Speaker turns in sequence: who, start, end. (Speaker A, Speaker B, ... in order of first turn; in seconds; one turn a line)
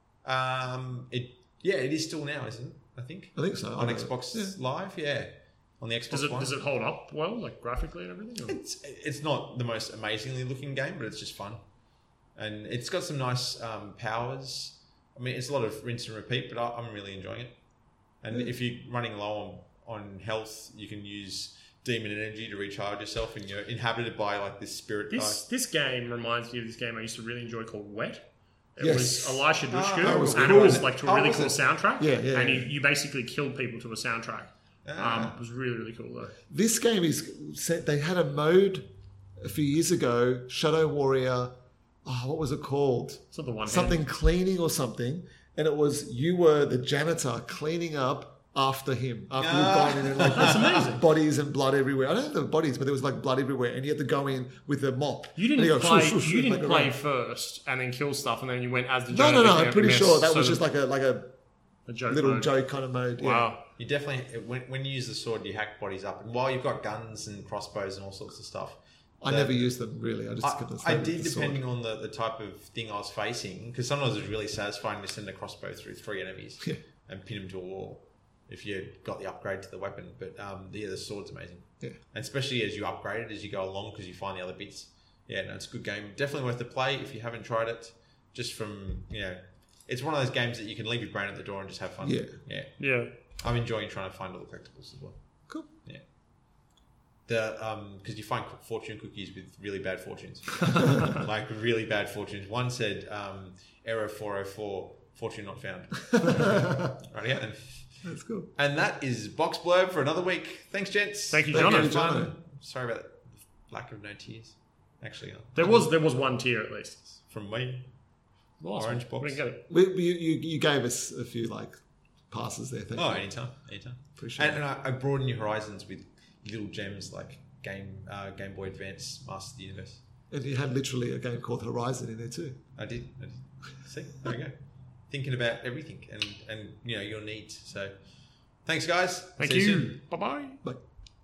Speaker A: 0.2-6.5
Speaker B: 3.4-4.5
Speaker C: 6.1-8.6
Speaker A: 8.5-11.6
Speaker A: 12.3-17.5
Speaker A: 18.2-25.4
Speaker C: 25.1-36.3
Speaker B: 28.8-29.5
Speaker A: 29.7-31.6
Speaker B: 30.0-30.9
Speaker B: 32.0-32.7
Speaker A: 34.9-35.4
Speaker B: 36.5-38.8
Speaker B: 39.4-41.5
Speaker B: 42.0-56.9
Speaker C: 43.3-44.1
Speaker A: 49.4-50.7
Speaker C: 50.2-51.0
Speaker C: 55.4-60.6
Speaker B: 59.1-61.3
Speaker C: 61.9-62.5
Speaker B: 62.1-63.5
Speaker C: 63.2-63.6
Speaker A: 63.8-69.7
Speaker B: 69.2-71.6
Speaker A: 70.4-92.7
Speaker B: 92.0-92.3
Speaker C: 92.8-93.1
Speaker A: 93.4-95.2
Speaker A: 97.3-107.6
Speaker B: 106.1-107.0
Speaker B: 108.0-108.5
Speaker A: 108.5-115.7
Speaker C: 111.3-111.9
Speaker B: 111.5-112.3
Speaker C: 115.5-117.0
Speaker A: 117.3-117.8
Speaker C: 118.6-119.6
Speaker A: 118.7-119.4
Speaker B: 119.7-121.8
Speaker B: 122.3-123.3
Speaker A: 122.9-130.0
Speaker B: 124.2-124.6
Speaker B: 130.3-132.6
Speaker A: 132.8-134.5
Speaker A: 135.1-137.9
Speaker A: 138.7-139.9
Speaker C: 139.4-140.6